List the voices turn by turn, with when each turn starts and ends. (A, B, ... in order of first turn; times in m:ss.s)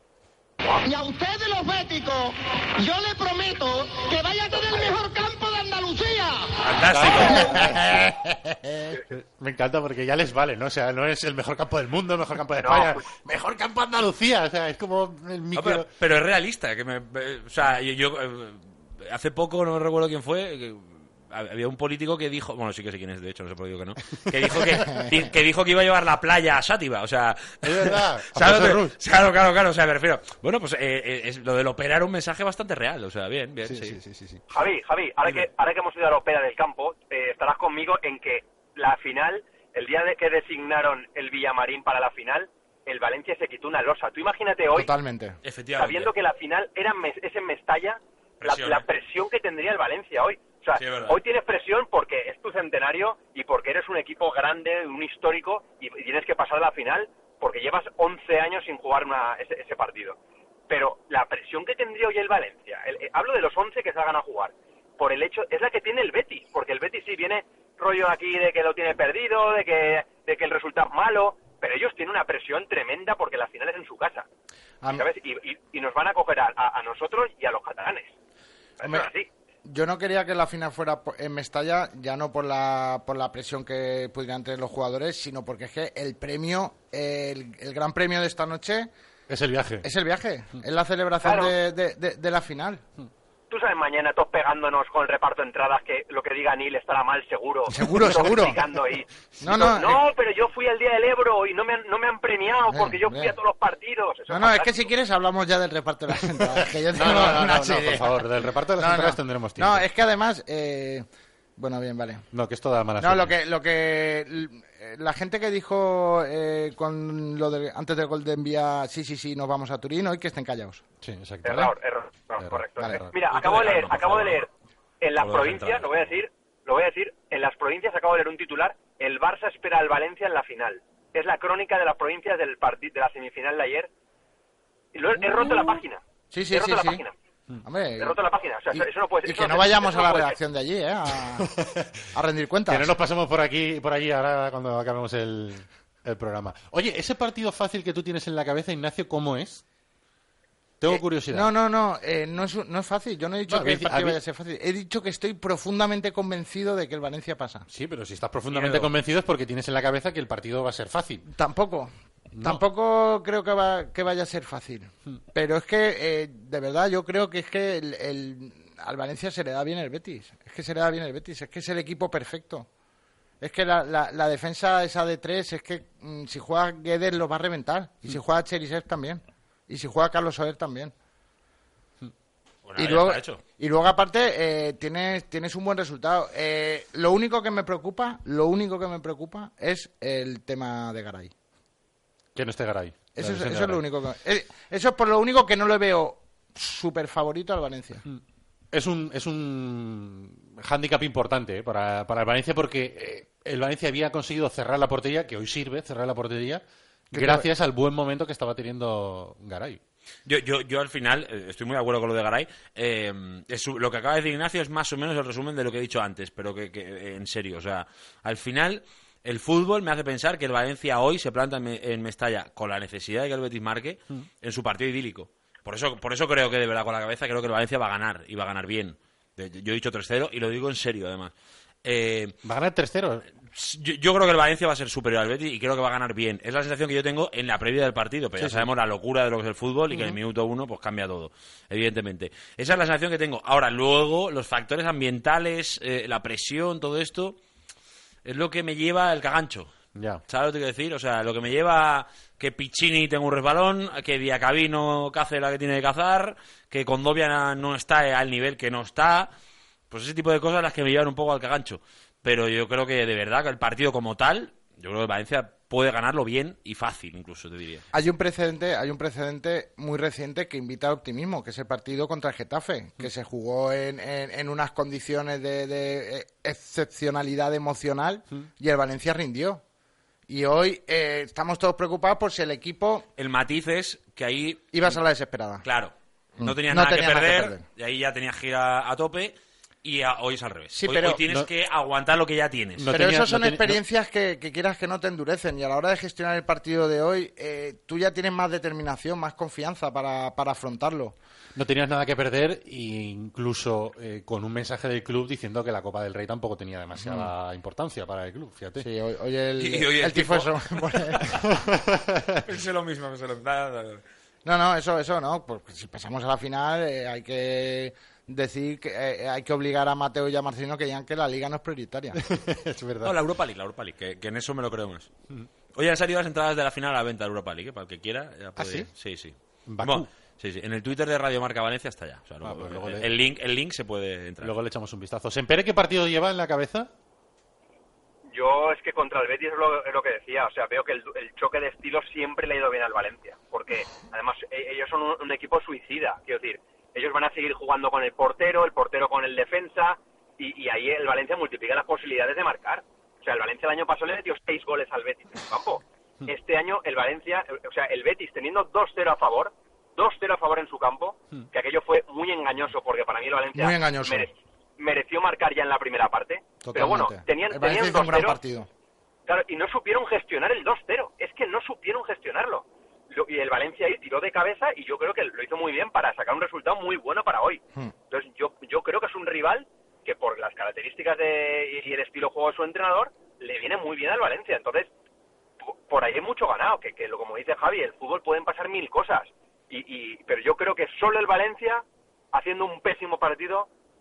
0:00.8-0:06.6 A
0:06.6-0:07.5 B
0:06.9-0:08.0 C
0:07.2-0:08.9 D
0:09.1-0:15.9 C
0:12.6-0:13.0 E
0:15.5-0:34.0 B
0:27.6-0:29.0 C
0:33.7-0:34.4 D
0:34.5-0:44.9 E
0:44.7-0:45.4 D
0:45.4-0:46.1 B
0:45.8-1:00.2 E
0:48.4-0:48.8 B
0:50.8-0:51.2 B
1:00.7-1:14.2 E
1:14.9-1:18.1 E
1:18.8-1:19.3 E
1:18.8-1:19.1 D
1:19.6-1:28.9 D
1:29.3-1:29.8 C
1:29.8-1:32.8 D
1:31.2-1:31.5 E
1:33.5-1:44.8 E
1:37.7-1:38.6 D
1:39.4-1:40.0 D
1:42.7-1:43.3 D
1:44.3-1:51.0 D
1:46.6-1:49.8 C
1:51.6-1:52.2 D
1:52.3-1:53.3 C
1:53.0-2:00.8 D
2:01.0-2:01.7 C
2:01.4-2:04.5 E
2:02.4-2:03.1 C
2:03.3-2:04.5 B
2:05.0-2:13.9 E
2:05.2-2:05.9 B
2:14.9-2:17.1 E
2:16.3-2:17.0 D
2:17.6-2:21.5 D
2:18.0-2:20.4 E
2:21.4-2:21.8 C
2:22.1-2:22.9 D
2:22.7-2:29.6 C
2:30.8-2:31.5 C
2:30.9-2:37.7 D
2:33.5-2:34.2 C
2:37.7-2:41.2 C
2:38.5-2:38.8 B
2:41.3-2:52.7 D
2:42.3-2:42.6 C
2:53.4-3:00.9 D
3:02.6-3:03.4 B
3:02.8-3:11.3 D
3:12.3-3:13.8 C
3:13.1-3:18.0 D
3:18.7-3:29.8 C
3:27.1-3:27.5 D
3:30.2-3:51.3 B
3:51.8-3:52.3 B
3:52.4-3:53.2 C
3:53.5-4:07.4 B
4:08.2-4:09.7 B
4:09.9-4:10.2 C
4:10.3-4:19.3 B
4:19.9-4:27.8 B
4:27.9-4:39.6 D
4:40.3-4:43.0 D
4:43.2-4:44.7 B
4:44.7-4:45.6 D
4:45.6-4:52.9 B
4:46.4-4:47.6 D
4:50.7-4:51.2 D
4:52.8-4:53.8 C
4:52.9-5:01.2 D
5:01.5-5:08.9 C
5:07.0-5:07.3 D
5:08.8-5:11.4 D
5:09.6-5:11.4 B
5:11.5-5:12.4 C
5:12.4-5:14.0 B
5:14.4-5:22.2 D
5:22.2-5:23.2 C
5:23.0-5:25.1 B
5:25.7-5:34.5 B
5:28.6-5:28.9 C
5:29.7-5:30.1 C
5:32.4-5:33.1 C
5:34.4-5:36.9 C
5:38.3-6:08.4 E
6:03.5-6:04.3 D
6:06.6-6:08.7 D
6:09.3-6:24.9 E
6:25.8-6:33.7 E